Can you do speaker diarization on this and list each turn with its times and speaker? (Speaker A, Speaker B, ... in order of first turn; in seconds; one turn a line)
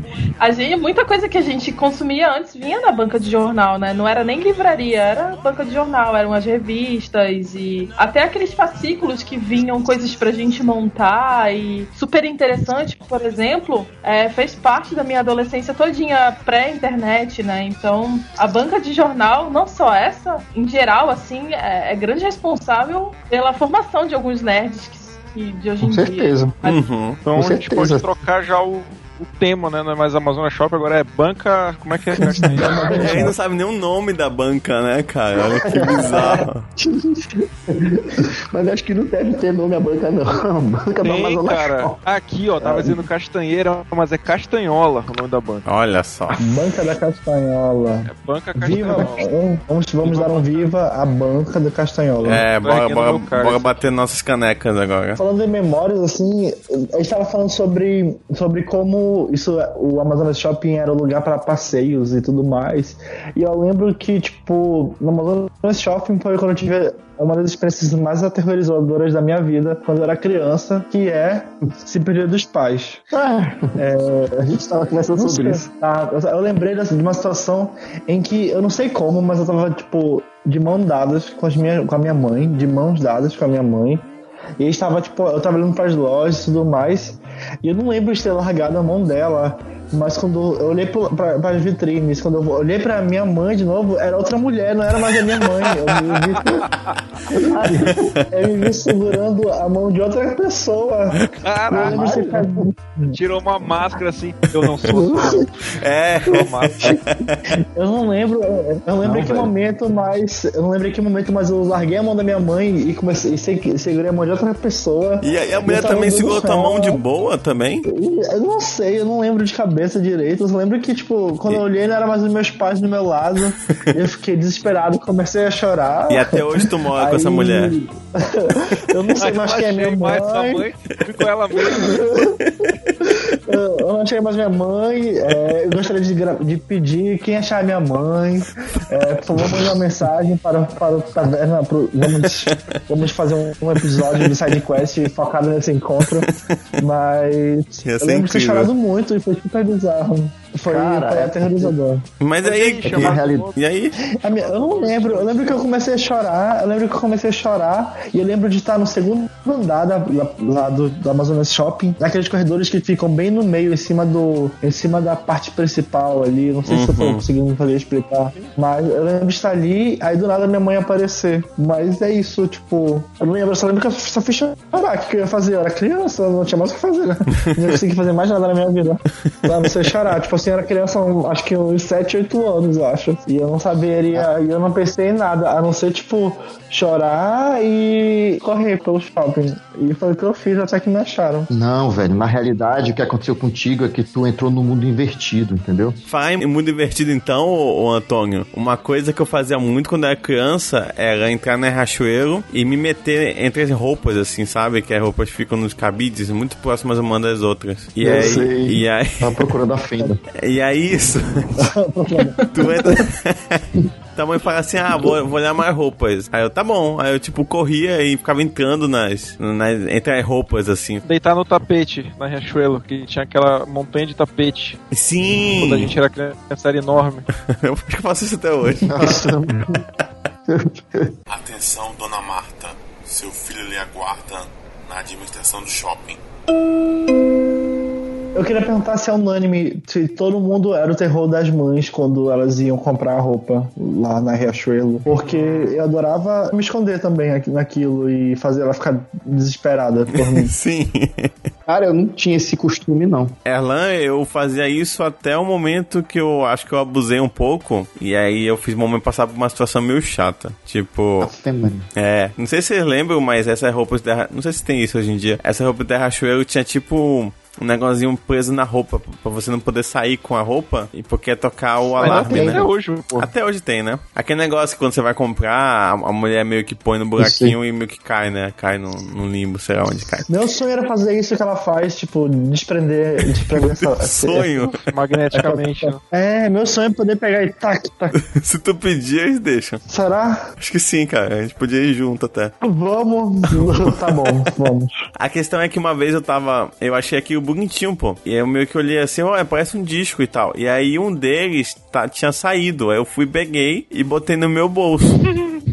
Speaker A: 0.4-26.8
Speaker B: 25.8-26.6
Speaker C: 26.6-27.2
Speaker D: 27.2-32.9
Speaker B: 27.3-28.1
Speaker B: 32.1-33.3
Speaker E: 32.2-33.3
Speaker C: 33.0-36.6
Speaker B: 35.6-41.9
Speaker D: 41.0-45.6
Speaker B: 42.6-43.0
Speaker C: 45.6-46.4
Speaker E: 46.4-52.5
Speaker D: 48.0-49.3
Speaker B: 48.8-49.1
Speaker D: 50.0-50.7
Speaker C: 52.2-55.2
Speaker D: 52.6-53.9
Speaker E: 55.1-73.0
Speaker B: 73.1-73.8
Speaker E: 73.8-74.5
Speaker B: 74.4-75.7
Speaker E: 75.2-84.0
Speaker E: 84.6-96.7
Speaker B: 97.3-98.0
Speaker C: 97.9-98.2
Speaker E: 98.3-103.2
Speaker C: 101.2-101.4
Speaker D: 101.4-102.1
Speaker B: 101.7-102.7
Speaker D: 103.1-106.9
Speaker E: 104.9-105.4
Speaker C: 105.7-107.5
Speaker B: 106.8-107.6
Speaker E: 107.7-117.0
Speaker B: 109.0-109.5
Speaker C: 115.2-117.8
Speaker E: 117.9-130.7
Speaker C: 126.1-127.7
Speaker D: 129.2-132.1
Speaker E: 131.7-132.4
Speaker C: 132.4-132.9
Speaker E: 133.0-146.3
Speaker C: 142.1-142.8
Speaker E: 146.8-152.0
Speaker C: 147.8-148.7
Speaker B: 150.7-151.7
Speaker C: 152.2-154.0
Speaker D: 152.4-153.6
Speaker B: 152.9-153.5
Speaker E: 154.2-191.5
Speaker D: 154.3-155.6
Speaker C: 166.7-167.2
Speaker B: 191.5-196.0
Speaker C: 196.1-209.3
Speaker B: 208.0-210.2
Speaker C: 210.4-211.7
Speaker E: 211.6-212.4
Speaker A: 212.4-212.7
Speaker C: 212.5-221.0
Speaker D: 221.0-224.8
Speaker C: 224.9-225.9
Speaker D: 225.6-227.3
Speaker C: 227.5-229.3
Speaker B: 228.8-229.8
Speaker B: 230.5-231.1
Speaker F: 231.3-236.2
Speaker E: 238.3-250.5
Speaker D: 245.1-245.8
Speaker C: 250.2-251.3
Speaker B: 251.7-253.3
Speaker C: 253.4-261.3
Speaker B: 261.2-261.9
Speaker C: 261.9-272.6
Speaker D: 272.0-273.3
Speaker B: 272.0-272.7
Speaker C: 273.2-280.3
Speaker B: 277.2-277.6
Speaker E: 280.3-284.5
Speaker C: 283.4-284.8
Speaker D: 284.7-286.0
Speaker E: 285.3-288.2
Speaker C: 288.2-289.8
Speaker E: 289.9-290.4
Speaker C: 290.6-292.5
Speaker E: 292.6-294.9
Speaker C: 293.5-293.9
Speaker C: 295.2-305.3